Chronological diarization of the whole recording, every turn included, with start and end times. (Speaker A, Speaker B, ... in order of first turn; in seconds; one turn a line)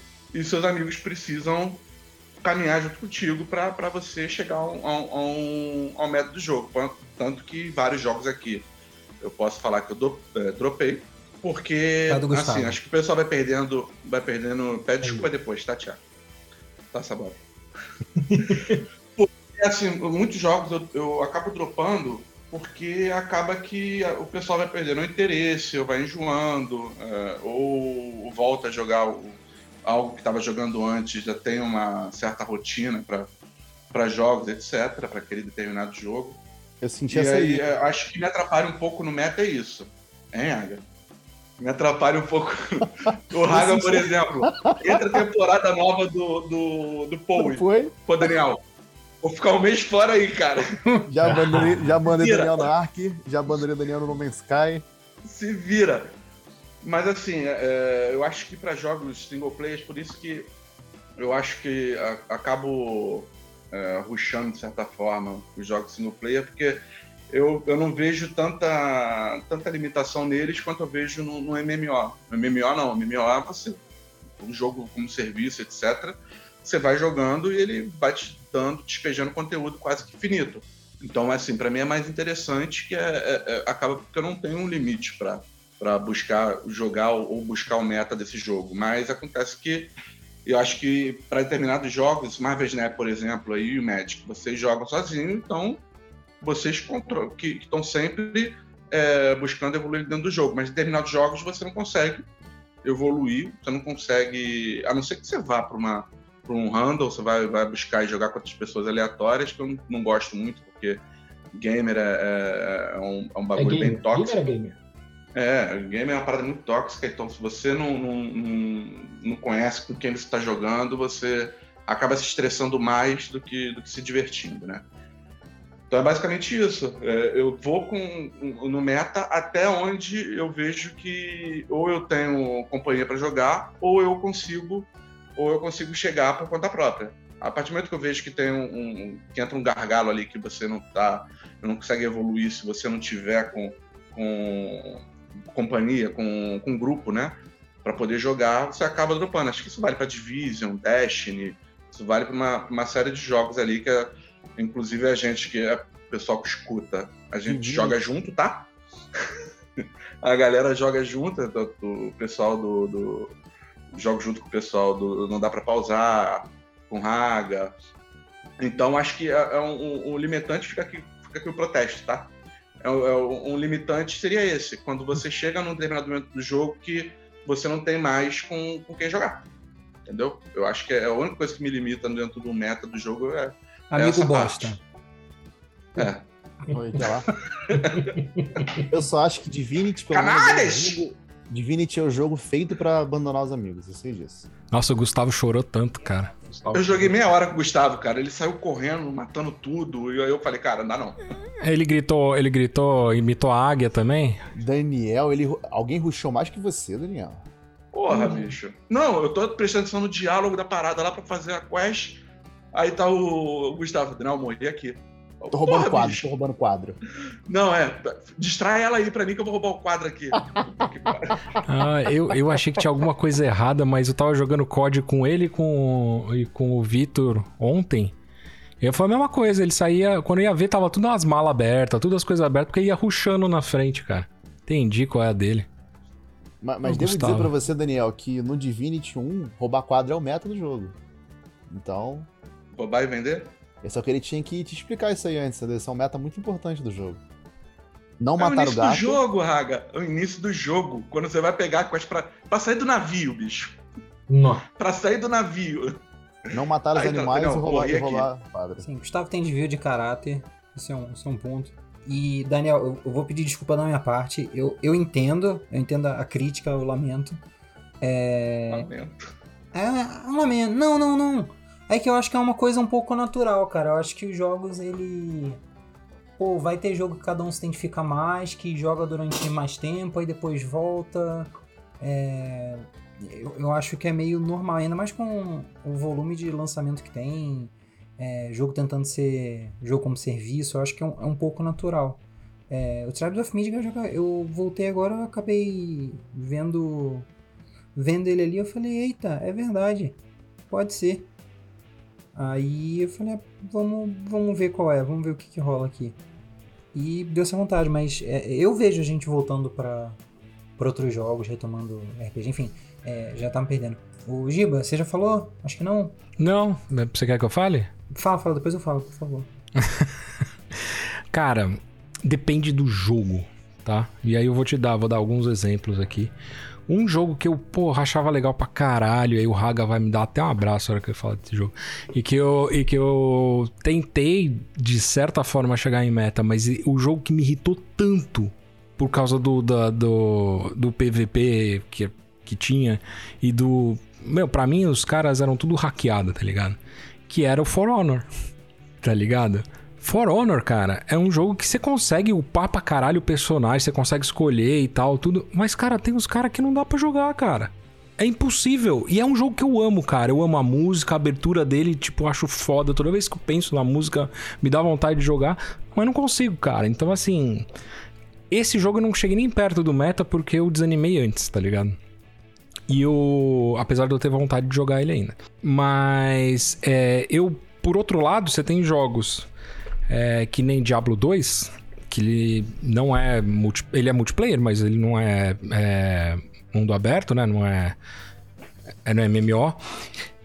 Speaker A: 0.3-1.8
Speaker A: 2.4-8.7
Speaker A: 9.2-16.0
Speaker B: 12.1-12.8
Speaker C: 15.0-15.3
Speaker A: 16.9-17.4
Speaker C: 18.2-18.9
Speaker A: 18.4-18.7
Speaker A: 19.2-33.3
Speaker A: 33.9-36.4
Speaker D: 36.8-37.7
Speaker A: 37.1-40.8
Speaker A: 41.6-48.6
Speaker D: 43.3-45.2
Speaker D: 47.4-48.4
Speaker A: 49.2-52.7
Speaker D: 51.1-54.9
Speaker A: 55.2-56.1
Speaker A: 56.8-60.5
Speaker A: 61.2-73.8
Speaker A: 74.4-89.9
Speaker A: 90.5-95.8
Speaker A: 96.4-102.3
Speaker A: 102.8-111.0
Speaker A: 111.5-114.5
Speaker C: 113.5-114.8
Speaker A: 115.3-124.9
Speaker A: 125.9-158.7
Speaker D: 157.5-158.0
Speaker A: 159.8-163.3
Speaker A: 163.9-167.7
Speaker A: 168.6-172.3
Speaker A: 172.8-179.4
Speaker A: 180.1-184.8
Speaker B: 183.9-184.8
Speaker A: 185.9-186.2
Speaker D: 186.7-187.3
Speaker A: 187.6-188.1
Speaker C: 187.8-188.8
Speaker D: 188.8-194.5
Speaker A: 190.1-191.0
Speaker E: 194.7-196.3
Speaker C: 196.5-197.3
Speaker A: 196.7-201.2
Speaker E: 201.6-204.4
Speaker D: 204.6-207.5
Speaker A: 207.9-216.3
Speaker D: 215.5-217.0
Speaker A: 217.5-221.5
Speaker E: 221.7-228.2
Speaker E: 228.8-235.7
Speaker D: 236.6-240.9
Speaker E: 236.8-237.5
Speaker D: 241.7-242.3
Speaker A: 242.7-243.5
Speaker D: 243.8-247.2
Speaker D: 248.2-249.2
Speaker A: 248.4-253.8
Speaker C: 254.3-254.7
Speaker A: 254.7-256.0
Speaker D: 256.5-258.9
Speaker A: 256.9-258.3
Speaker B: 258.8-267.4
Speaker B: 268.0-268.9
Speaker A: 268.7-269.2
Speaker B: 269.7-275.6
Speaker B: 276.4-281.5
Speaker B: 282.0-297.3
Speaker B: 297.9-300.2
Speaker B: 300.7-301.3
Speaker B: 302.4-306.2
Speaker B: 306.9-310.2
Speaker B: 310.8-316.1
Speaker E: 316.4-317.9
Speaker B: 318.1-319.5
Speaker E: 319.8-320.3
Speaker E: 320.9-326.3
Speaker E: 326.9-346.8
Speaker E: 347.3-348.3
Speaker E: 349.0-367.7
Speaker E: 368.5-372.0
Speaker E: 372.9-379.5
Speaker E: 380.1-388.0
Speaker E: 389.1-389.8